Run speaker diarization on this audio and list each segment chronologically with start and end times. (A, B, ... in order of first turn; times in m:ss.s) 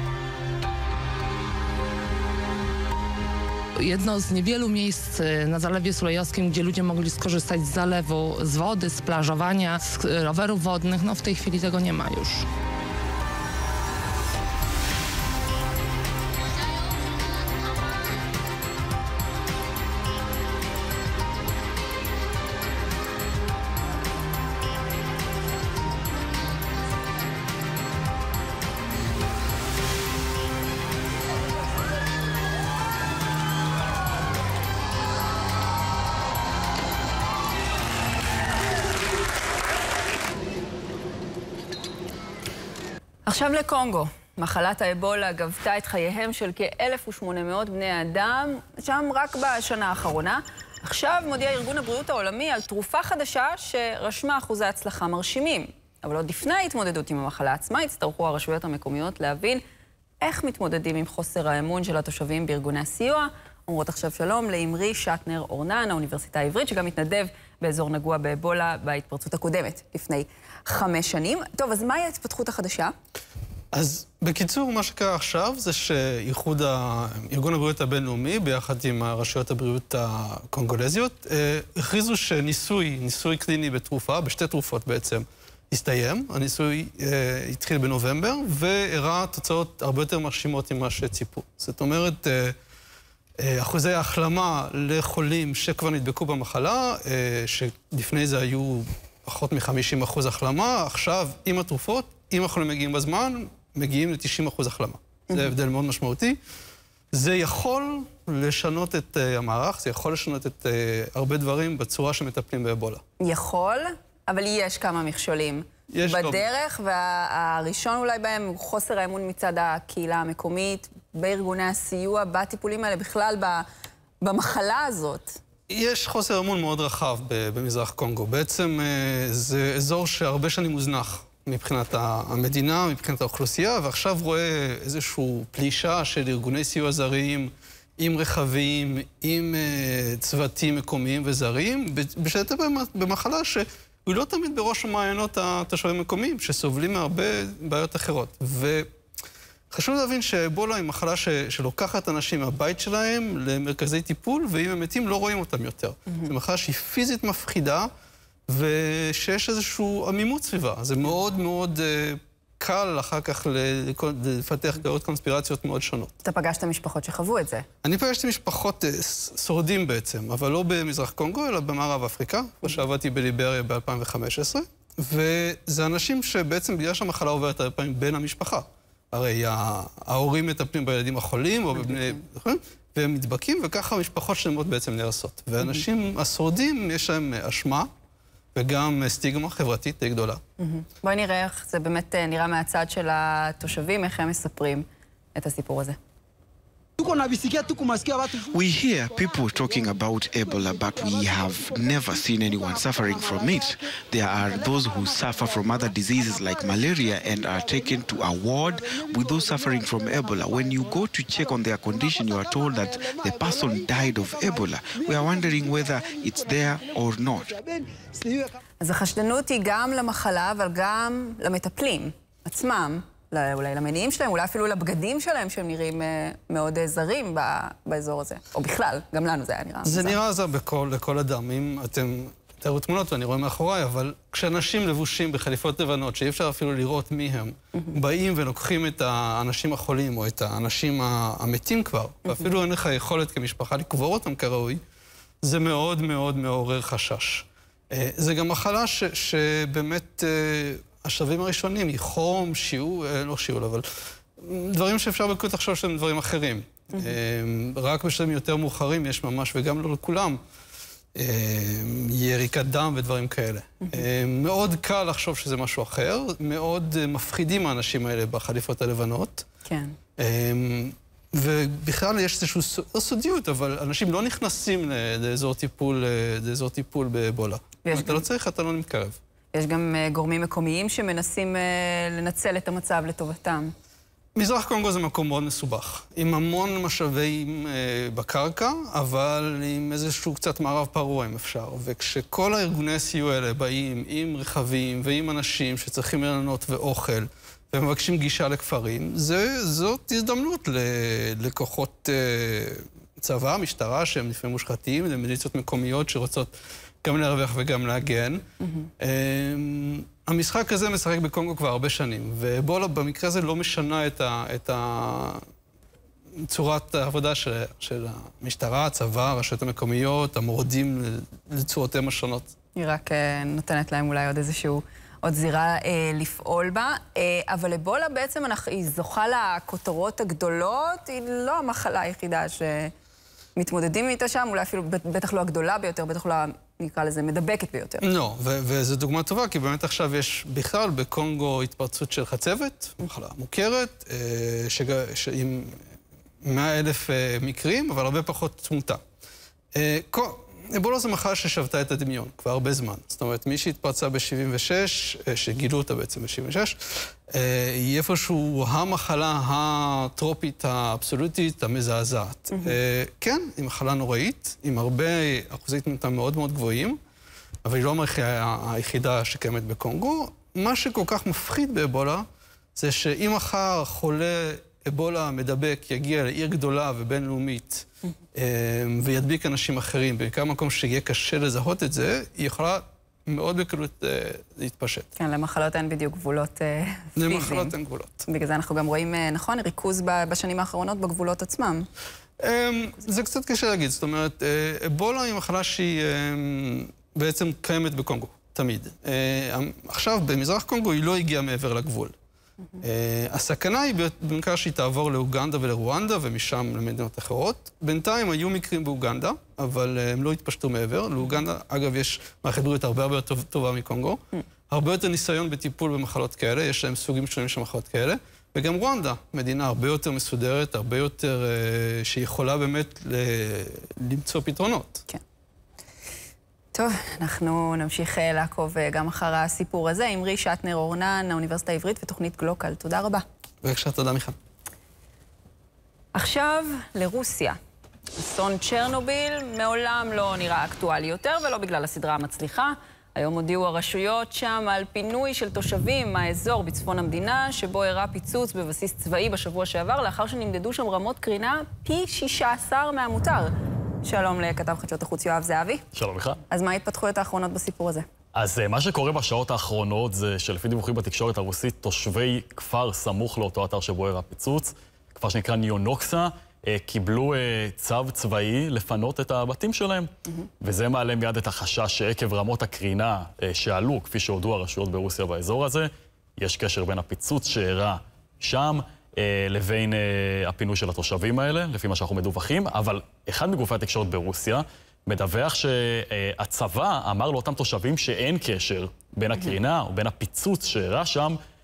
0:03.8-0:12.5 A
0:43.3-0:59.6 B
1:00.2-1:12.9 B
1:13.7-1:32.6 C
1:33.4-1:46.4 C
1:47.1-1:53.0 C
1:53.2-2:03.7 B
1:55.9-1:56.4 C
2:04.2-2:05.4 B
2:05.7-2:28.9 C
2:29.7-2:37.9 C
2:38.5-2:46.1 C
2:46.2-2:47.6 B
2:47.8-3:07.9 C
3:01.8-3:02.2 B
3:08.6-3:10.4 C
3:10.6-3:16.0 B
3:18.5-3:37.6 D
3:38.8-3:50.2 B
3:49.8-4:04.8 C
4:05.4-4:13.9 C
4:14.4-4:20.4 C
4:21.2-4:29.5 C
4:29.7-4:30.0 B
4:30.2-4:39.2 C
4:37.8-4:38.2 B
4:39.5-4:43.7 B
4:44.4-5:08.4 C
5:09.0-5:15.4 C
5:16.4-5:22.5 C
5:22.8-5:32.9 B
5:33.6-5:38.0 B
5:38.0-5:45.8 C
5:46.4-5:49.0 C
5:49.7-5:56.8 C
5:57.3-6:07.0 C
6:07.6-6:12.2 C
6:12.8-6:25.1 C
6:25.2-6:27.8 B
6:27.2-6:28.2 C
6:28.3-6:31.9 B
6:32.4-6:42.1 C
6:42.8-7:05.0 C
7:06.7-7:13.2 B
7:13.6-7:14.4 C
7:16.2-7:17.6 B
7:18.2-7:33.5 B
7:34.0-7:35.8 B
7:35.9-7:36.4 E
7:36.5-7:38.0 B
7:38.4-8:11.4 E